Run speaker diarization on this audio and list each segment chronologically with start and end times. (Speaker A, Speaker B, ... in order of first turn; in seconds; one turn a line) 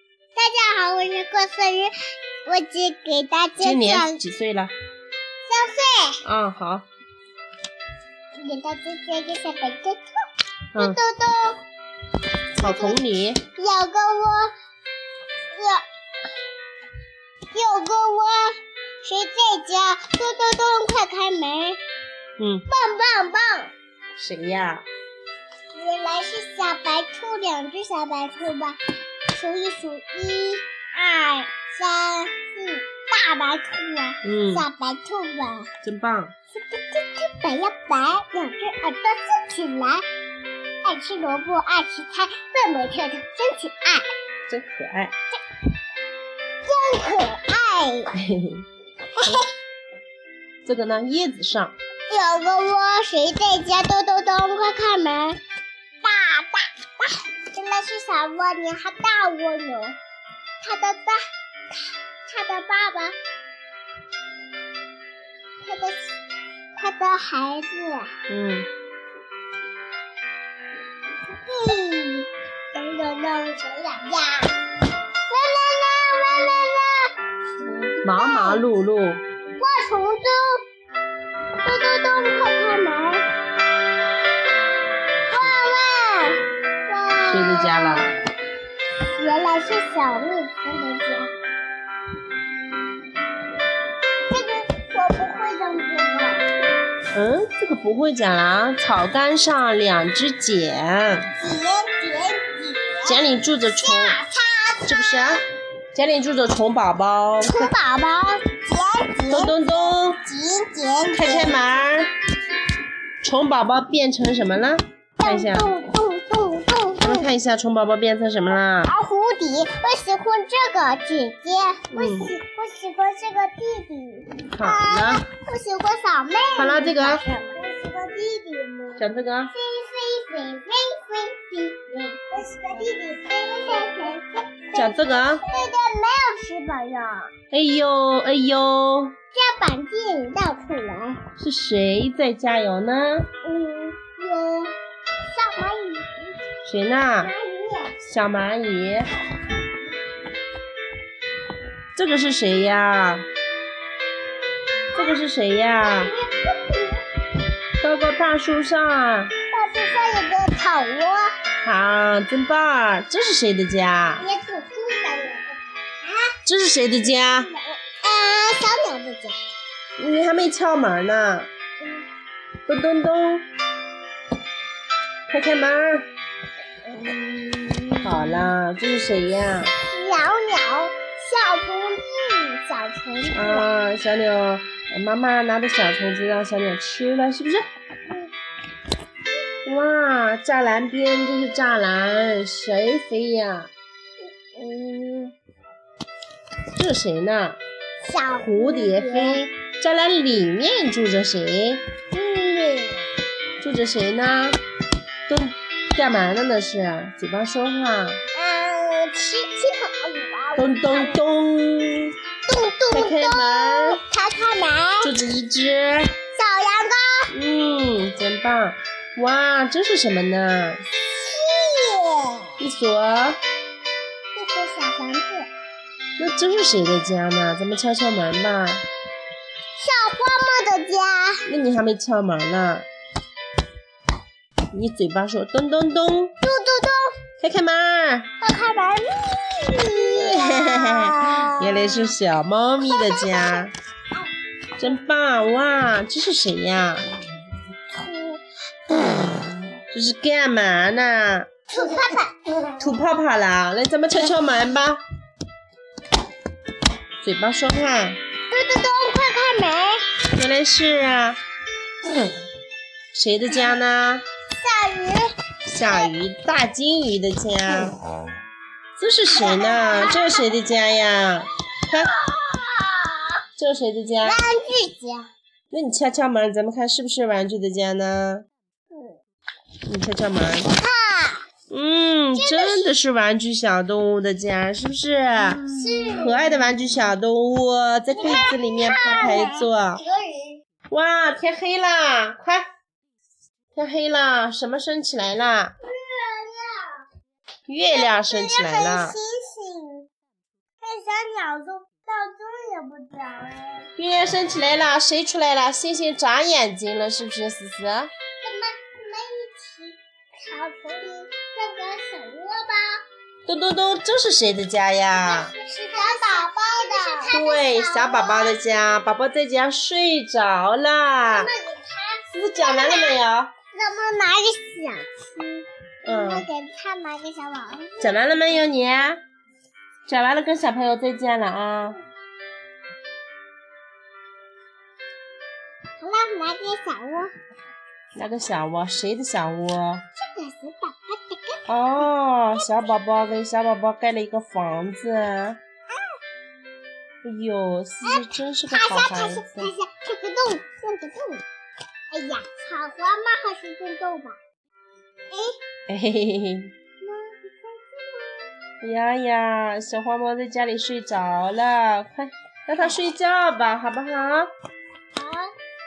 Speaker A: 0.3-1.9
Speaker A: 2.5-4.2
Speaker B: 3.6-4.7
Speaker A: 5.5-6.2
Speaker B: 6.2-6.9
Speaker A: 8.4-10.1
Speaker B: 10.7-11.0
Speaker A: 10.8-11.6
Speaker A: 12.6-14.5
Speaker B: 12.6-13.4
Speaker A: 15.6-15.8
Speaker A: 17.5-21.8
Speaker B: 22.4-22.6
Speaker A: 22.7-23.7
Speaker B: 24.2-24.8
Speaker A: 25.7-28.8
Speaker A: 29.3-35.7
Speaker B: 34.2-34.7
Speaker B: 35.8-36.3
Speaker A: 36.5-40.0
Speaker A: 40.8-44.1
Speaker B: 44.5-45.1
Speaker A: 46.6-48.1
Speaker B: 48.2-48.7
Speaker A: 49.2-49.5
Speaker B: 50.6-51.7
Speaker A: 52.1-55.4
Speaker A: 56.0-60.0
Speaker A: 60.6-63.2
Speaker A: 65.6-66.1
Speaker A: 66.8-68.2
Speaker B: 68.3-68.7
Speaker A: 71.3-74.6
Speaker A: 75.3-77.1
Speaker A: 77.7-78.7
Speaker B: 78.0-79.2
Speaker A: 79.6-80.6
Speaker A: 81.6-83.3
Speaker A: 85.3-88.1
Speaker B: 87.2-88.1
Speaker A: 89.2-91.4
Speaker A: 94.3-96.5
Speaker B: 97.1-101.3
Speaker A: 101.4-103.3
Speaker B: 103.0-104.2
Speaker A: 103.8-105.4
Speaker B: 104.9-107.7
Speaker A: 107.4-111.6
Speaker B: 109.3-110.2
Speaker B: 111.1-112.1
Speaker B: 113.2-115.7
Speaker A: 115.2-117.3
Speaker B: 117.0-118.9
Speaker A: 118.8-137.3
Speaker B: 121.9-122.3
Speaker B: 124.5-125.2
Speaker B: 126.6-127.2
Speaker B: 129.0-129.5
Speaker B: 134.8-135.4
Speaker B: 137.5-139.2
Speaker A: 139.3-141.2
Speaker B: 141.4-143.3
Speaker A: 143.4-144.8
Speaker A: 145.3-146.4
Speaker B: 146.6-147.3
Speaker A: 147.2-148.0
Speaker B: 148.0-149.1
Speaker B: 151.9-153.3
Speaker A: 154.9-155.2
Speaker B: 154.9-156.1
Speaker A: 155.8-157.0
Speaker B: 157.8-159.3
Speaker A: 159.5-161.3
Speaker B: 161.7-164.2
Speaker A: 164.2-166.3
Speaker B: 166.5-167.5
Speaker A: 167.1-169.4
Speaker B: 170.0-171.5
Speaker B: 172.7-173.5
Speaker B: 175.3-176.1
Speaker A: 176.9-178.5
Speaker B: 178.0-179.7
Speaker A: 179.8-183.7
Speaker B: 183.3-187.7
Speaker B: 189.7-193.7
Speaker A: 194.6-195.3
Speaker B: 196.7-197.6
Speaker A: 198.0-199.4
Speaker B: 198.3-201.8
Speaker A: 202.1-203.1
Speaker B: 203.6-204.6
Speaker B: 205.3-208.2
Speaker A: 208.3-211.2
Speaker B: 210.6-212.2
Speaker A: 212.5-215.1
Speaker B: 212.9-214.0
Speaker B: 215.0-216.1
Speaker A: 216.3-217.3
Speaker B: 217.3-220.8
Speaker A: 221.1-222.6
Speaker B: 222.6-223.4
Speaker A: 224.3-225.5
Speaker B: 226.2-228.8
Speaker A: 229.8-231.5
Speaker B: 231.5-232.9
Speaker B: 234.7-236.3
Speaker A: 236.4-237.2
Speaker B: 237.4-238.3
Speaker A: 238.4-242.1
Speaker B: 240.1-243.7
Speaker A: 242.8-244.3
Speaker B: 244.8-247.1
Speaker A: 247.9-249.1
Speaker B: 249.9-251.5
Speaker A: 251.7-252.4
Speaker B: 252.8-255.0
Speaker B: 257.2-258.2
Speaker A: 258.5-260.1
Speaker B: 260.3-261.4
Speaker B: 263.1-264.2
Speaker A: 264.6-265.3
Speaker B: 265.7-268.0
Speaker A: 265.8-266.1
Speaker B: 269.0-272.1
Speaker A: 269.3-270.5
Speaker A: 272.1-273.2
Speaker B: 273.6-274.4
Speaker A: 274.2-275.3
Speaker B: 275.7-278.5
Speaker B: 279.9-280.7
Speaker A: 280.6-281.5
Speaker B: 281.7-290.0
Speaker A: 282.4-283.0
Speaker A: 285.6-286.4
Speaker A: 288.1-290.6
Speaker B: 290.9-292.7
Speaker B: 293.8-295.8
Speaker A: 295.8-297.0
Speaker B: 297.7-299.2
Speaker A: 297.8-300.1
Speaker A: 300.8-303.9
Speaker B: 304.0-308.1
Speaker A: 308.4-313.0
Speaker B: 313.5-315.5
Speaker A: 315.1-318.6
Speaker B: 317.3-321.5
Speaker A: 321.2-323.2
Speaker B: 322.3-323.5
Speaker A: 323.7-328.1
Speaker B: 326.0-326.5
Speaker B: 328.0-329.2
Speaker B: 330.1-332.0
Speaker A: 336.0-337.3
Speaker B: 338.1-340.1
Speaker A: 340.2-341.7
Speaker B: 341.7-345.6
Speaker A: 342.5-342.9
Speaker B: 347.2-349.7
Speaker A: 348.0-351.4
Speaker A: 352.1-354.4
Speaker A: 355.3-355.6
Speaker B: 355.9-356.7
Speaker A: 357.0-358.4
Speaker B: 358.8-364.5
Speaker A: 365.1-365.5